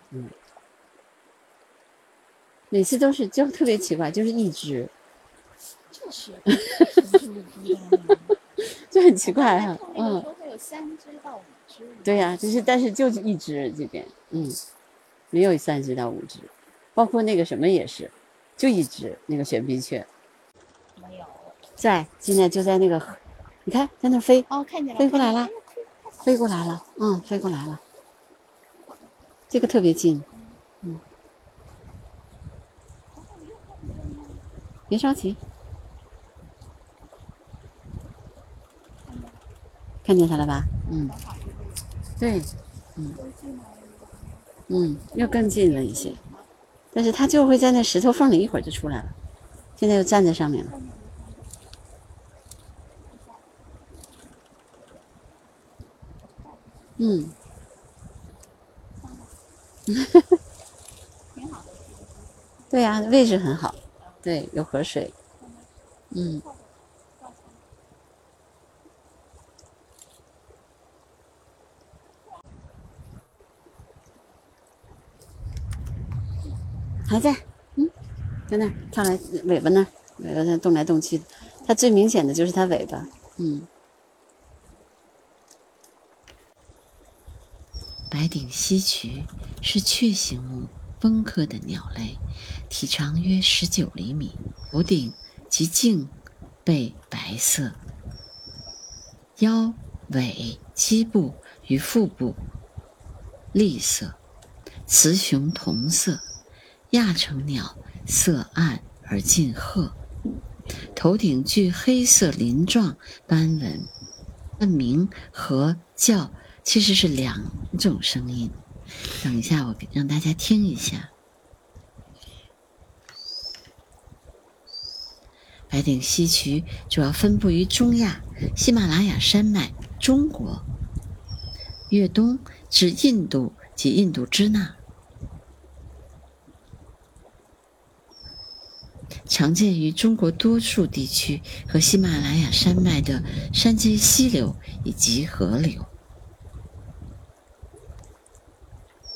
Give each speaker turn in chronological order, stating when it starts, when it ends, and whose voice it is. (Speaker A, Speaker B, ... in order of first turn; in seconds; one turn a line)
Speaker A: 2.7-4.9
Speaker B: 5.9-8.4
Speaker A: 8.6-10.3
Speaker B: 9.2-12.7
Speaker A: 12.0-14.6
Speaker A: 15.3-20.1
Speaker B: 20.9-21.6
Speaker A: 21.8-24.5
Speaker B: 24.5-26.8
Speaker A: 25.0-25.5
Speaker A: 26.2-27.8
Speaker A: 29.5-30.3
Speaker B: 30.3-30.6
Speaker B: 33.1-34.5
Speaker A: 34.9-35.4
Speaker B: 39.0-39.4
Speaker A: 40.0-41.1
Speaker B: 40.9-42.0
Speaker A: 42.2-43.2
Speaker B: 43.1-46.5
Speaker A: 44.7-46.2
Speaker A: 46.9-49.1
Speaker A: 49.8-50.7
Speaker B: 50.6-51.7
Speaker B: 53.1-53.5
Speaker A: 57.0-57.4
Speaker B: 59.0-59.4
Speaker A: 59.9-60.2
Speaker B: 61.3-64.3
Speaker A: 62.7-65.1
Speaker B: 65.4-67.7
Speaker A: 66.1-66.4
Speaker A: 77.0-77.9
Speaker A: 78.5-83.7
Speaker C: 88.1-97.8
Speaker C: 99.4-102.4
Speaker C: 103.5-104.2
Speaker C: 104.9-106.2
Speaker C: 106.9-110.0
Speaker C: 110.9-113.9
Speaker C: 114.6-118.6
Speaker C: 119.2-121.1
Speaker C: 125.7-130.7
Speaker C: 131.9-134.8
Speaker C: 139.3-145.9